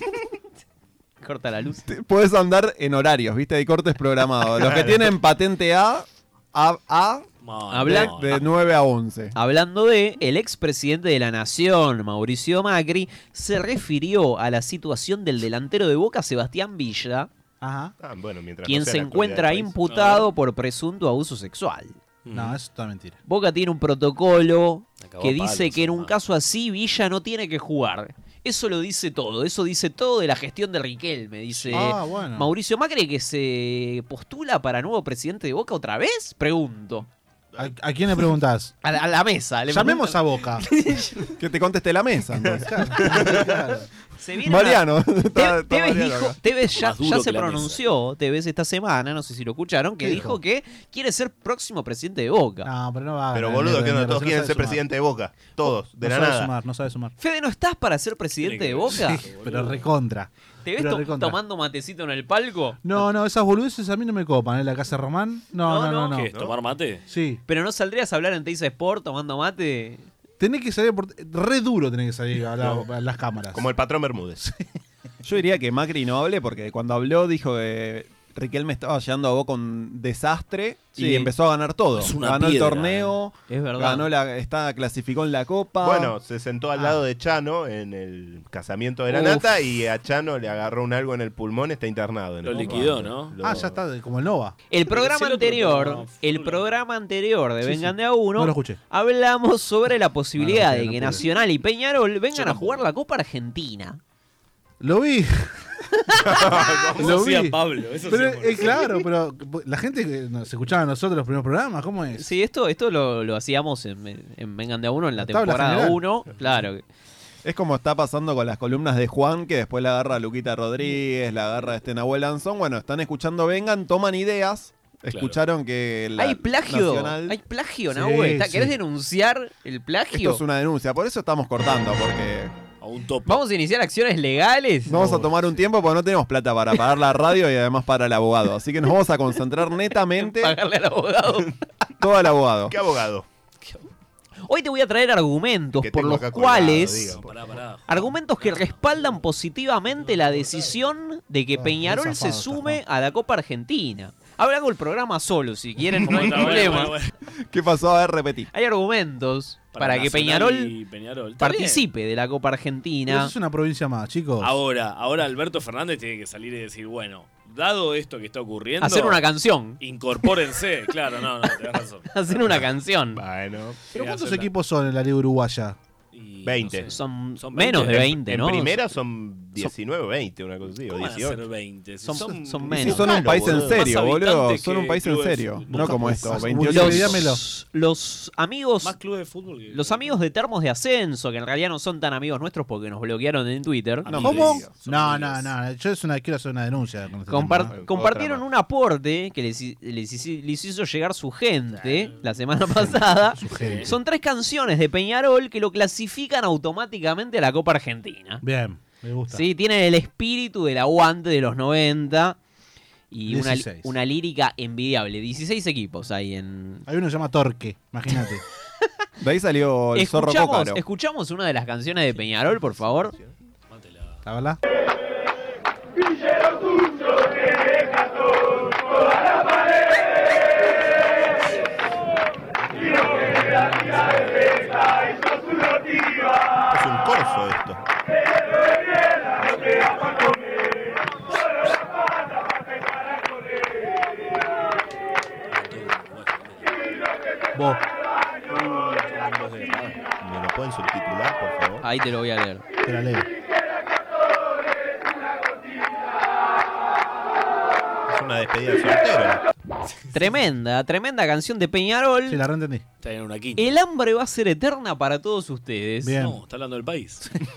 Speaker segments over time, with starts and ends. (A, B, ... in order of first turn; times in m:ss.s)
0:01.2-0:01.9 A
0:01.9-0:07.3 B
0:07.4-0:08.5 C
0:07.7-0:08.2 A
0:07.8-0:09.4 B
0:09.4-0:17.3 A
0:17.6-0:18.0 D
0:18.0-0:19.7 E
0:18.7-0:22.0 A
0:19.9-0:20.3 C
0:22.2-0:22.6 C
0:22.3-0:23.2 D
0:23.3-0:37.1 A
0:25.0-0:26.2 C
0:31.7-0:32.5 D
0:37.6-0:38.8 D
0:38.8-0:41.2 A
0:39.7-0:40.7 D
0:41.4-0:43.1 B
0:42.4-0:43.6 E
0:42.6-0:43.9 D
0:44.2-0:44.8 A
0:44.4-0:46.4 B
0:45.3-0:52.7 A
0:46.7-0:47.8 C
0:50.0-0:50.4 D
0:52.6-0:54.8 D
0:53.3-0:56.5 E
0:56.0-0:57.2 D
0:57.2-0:59.2 A
0:58.4-0:59.9 C
0:58.9-1:01.4 D
1:00.6-1:03.0 A
1:02.8-1:06.3 D
1:05.7-1:06.1 A
1:05.9-1:07.0 C
1:07.1-1:07.4 D
1:07.5-1:10.1 A
1:10.4-1:13.7 D
1:12.6-1:12.9 E
1:13.5-1:14.4 E
1:15.2-1:26.1 B
1:21.0-1:21.3 A
1:22.0-1:23.2 C
1:23.5-1:24.1 A
1:25.8-1:33.8 E
1:26.8-1:27.0 D
1:29.1-1:29.5 A
1:32.4-1:33.6 C
1:33.4-1:34.6 D
1:34.7-1:44.0 A
1:34.9-1:36.7 C
1:37.6-1:38.8 D
1:40.4-1:41.2 D
1:42.3-1:42.9 C
1:44.8-1:45.7 D
1:46.2-1:47.2 E
1:46.4-1:49.0 C
1:47.0-1:52.3 D
1:52.2-1:56.8 A
1:55.2-1:56.0 D
1:57.4-2:07.4 B
2:05.1-2:05.4 C
2:06.2-2:10.4 A
2:07.9-2:08.8 D
2:10.1-2:12.5 B
2:12.8-2:13.4 C
2:13.3-2:15.3 A
2:14.9-2:20.6 B
2:20.2-2:21.5 A
2:22.0-2:22.8 B
2:22.7-2:23.3 E
2:24.4-2:27.1 A
2:25.8-2:27.4 E
2:26.6-2:29.2 C
2:27.9-2:37.0 A
2:29.9-2:30.8 C
2:31.5-2:32.8 D
2:36.0-2:37.1 C
2:37.5-2:38.5 B
2:38.5-2:40.7 A
2:39.7-2:41.8 C
2:41.4-2:43.3 A
2:43.1-2:44.6 D
2:44.4-2:49.2 C
2:48.8-2:49.8 A
2:49.8-2:52.1 C
2:52.1-2:53.2 A
2:53.2-2:53.9 E
2:53.9-2:55.8 D
2:53.9-2:54.5 C
2:56.1-2:58.2 C
2:56.4-2:56.9 E
2:56.9-2:58.8 A
2:57.8-3:01.4 E
3:00.9-3:06.5 C
3:02.0-3:03.8 A
3:02.7-3:07.2 B
3:05.7-3:07.4 D
3:06.6-3:08.9 A
3:08.8-3:10.2 C
3:09.7-3:14.2 A
3:14.0-3:15.5 C
3:14.2-3:14.6 E
3:14.2-3:17.8 D
3:17.3-3:28.4 A
3:17.7-3:18.4 E
3:21.7-3:22.3 C
3:22.7-3:24.0 D
3:23.5-3:23.9 C
3:28.4-3:29.5 D
3:29.3-3:32.4 A
3:33.1-3:36.8 A
3:33.3-3:33.9 D
3:36.9-3:38.4 D
3:39.2-3:40.8 B
3:40.0-3:43.2 A
3:42.6-3:43.4 E
3:43.7-3:44.2 C
3:44.2-3:44.6 D
3:52.8-3:55.0 C
3:56.7-3:57.8 E
3:59.4-4:00.3 C
4:05.5-4:07.0 C
4:07.5-4:07.8 D
4:08.5-4:10.0 C
4:10.2-4:11.8 E
4:11.8-4:12.6 A
4:12.8-4:13.3 D
4:18.1-4:19.4 E
4:19.9-4:20.3 C
4:20.1-4:22.4 A
4:22.3-4:22.8 D
4:23.0-4:23.7 C
4:23.6-4:26.2 A
4:26.0-4:26.4 D
4:26.2-4:27.3 C